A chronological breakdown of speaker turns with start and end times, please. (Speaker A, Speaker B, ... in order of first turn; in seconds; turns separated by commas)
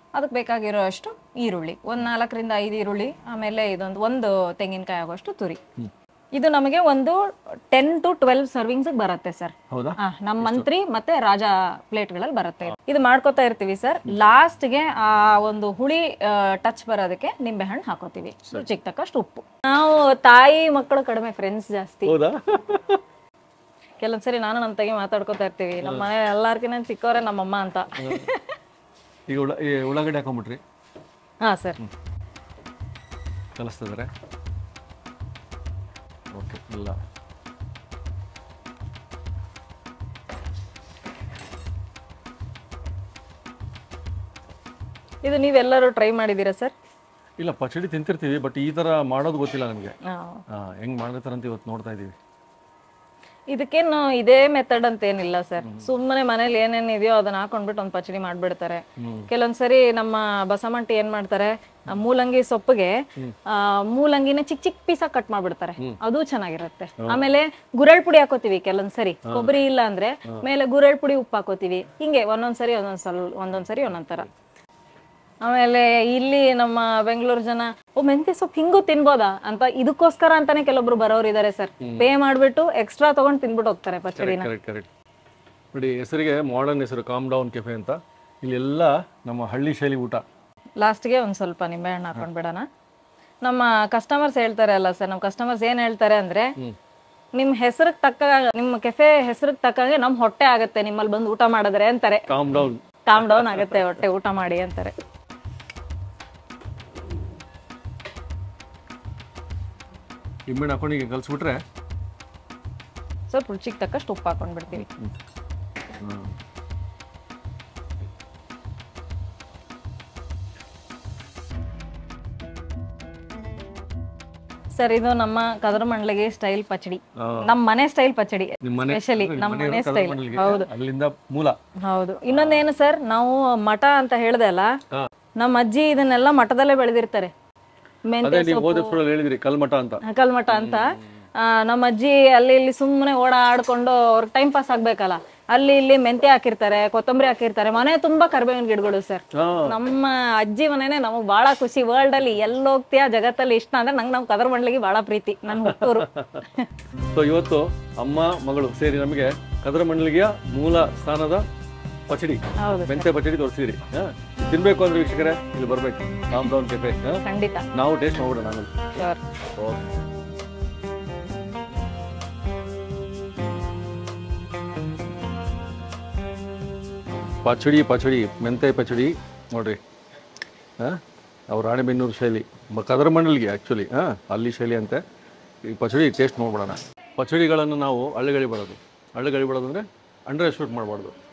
Speaker A: 0.1-5.6, Speaker A: 6.4-7.2, Speaker A: 7.7-22.1, Speaker B: 9.7-10.7, Speaker B: 22.1-23.0, Speaker A: 24.0-28.6, Speaker B: 25.8-26.1, Speaker B: 28.0-28.3, Speaker B: 29.3-30.6, Speaker A: 31.4-31.8, Speaker B: 33.6-34.1, Speaker B: 36.3-37.0, Speaker A: 45.2-46.7, Speaker B: 47.4-50.0, Speaker A: 50.0-50.4, Speaker B: 50.5-52.1, Speaker A: 53.5-74.3, Speaker B: 55.6-55.9, Speaker B: 59.0-59.3, Speaker B: 67.0-67.3, Speaker B: 69.2-69.6, Speaker A: 75.4-84.5, Speaker B: 81.8-82.1, Speaker B: 84.2-84.9, Speaker B: 85.7-90.2, Speaker A: 90.8-92.7, Speaker A: 93.4-96.5, Speaker A: 97.3-102.2, Speaker B: 102.3-103.9, Speaker A: 103.1-104.9, Speaker B: 110.5-111.6, Speaker A: 113.3-114.9, Speaker B: 116.0-116.3, Speaker A: 124.8-130.7, Speaker B: 127.2-127.5, Speaker B: 128.6-131.6, Speaker A: 131.9-134.7, Speaker B: 132.3-132.7, Speaker A: 135.4-137.3, Speaker A: 138.1-139.0, Speaker B: 138.2-141.0, Speaker A: 140.0-156.7, Speaker B: 149.3-149.8, Speaker B: 155.5-156.5, Speaker B: 157.1-161.4, Speaker B: 162.1-167.2, Speaker A: 162.6-163.1, Speaker A: 167.2-167.7, Speaker B: 167.7-168.9, Speaker A: 169.0-169.2, Speaker B: 177.4-179.8, Speaker B: 180.8-185.0, Speaker B: 185.7-191.1